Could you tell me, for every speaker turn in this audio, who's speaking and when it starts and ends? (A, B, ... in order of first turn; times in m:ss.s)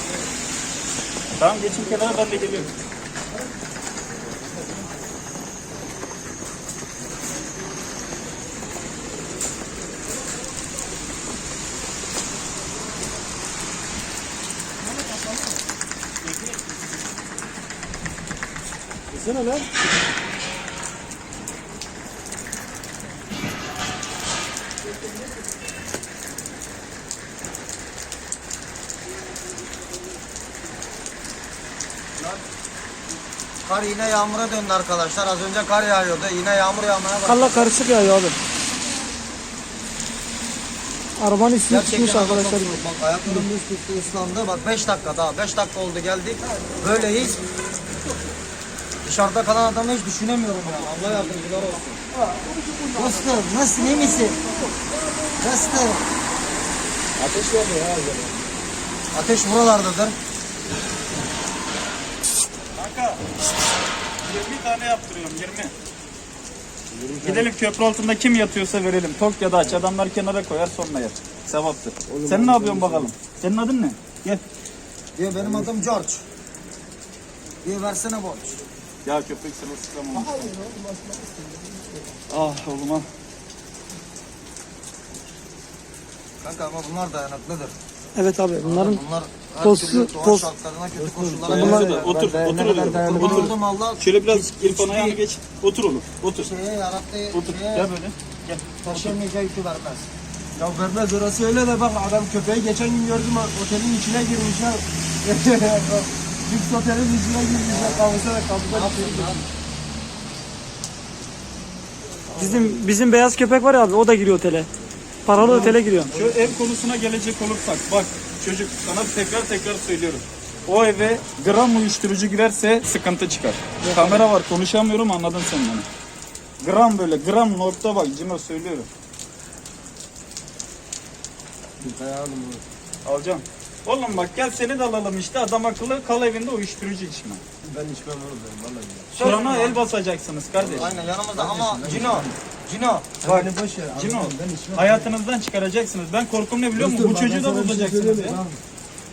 0:01.4-0:02.7 A
0:33.6-0:37.7 B
0:37.2-0:38.4 C
0:41.2-0:43.4 C
0:41.7-0:47.4 B
0:49.0-0:52.0 B
0:50.9-0:51.4 D
0:52.1-0:54.8 D
0:52.9-0:54.4 B
0:55.4-0:56.0 B
0:57.2-0:58.5 D
0:59.1-1:00.1 B
1:02.8-1:03.2 A
1:04.2-1:05.7 A
1:06.9-1:07.5 D
1:07.2-1:14.4 A
1:12.1-1:13.1 D
1:15.2-1:16.2 B
1:15.4-1:15.8 D
1:17.6-1:18.6 B
1:19.0-1:20.4 A
1:20.1-1:22.2 D
1:22.3-1:23.0 A
1:26.4-1:27.7 B
1:28.1-1:29.0 C
1:28.6-1:32.1 B
1:29.6-1:30.5 C
1:30.9-1:33.5 D
1:31.5-1:36.5 A
1:31.5-1:31.8 C
1:33.0-1:35.2 B
1:36.4-1:37.9 B
1:37.3-1:38.1 A
1:38.4-1:40.1 B
1:38.9-1:39.2 D
1:40.6-1:49.4 D
1:47.7-1:48.0 B
1:48.7-1:49.4 B
1:52.3-1:52.8 D
1:52.3-1:54.7 C
1:55.2-1:56.1 C
1:55.4-1:56.6 D
1:55.6-2:05.8 A
2:03.8-2:04.2 C
2:06.6-2:08.9 A
2:11.8-2:12.6 D
2:13.0-2:17.4 A
2:17.6-2:19.1 D
2:19.1-2:19.8 B
2:19.2-2:20.9 A
2:20.6-2:22.3 D
2:20.8-2:23.1 B
2:23.2-2:25.1 D
2:23.2-2:28.4 A
2:26.7-2:28.6 D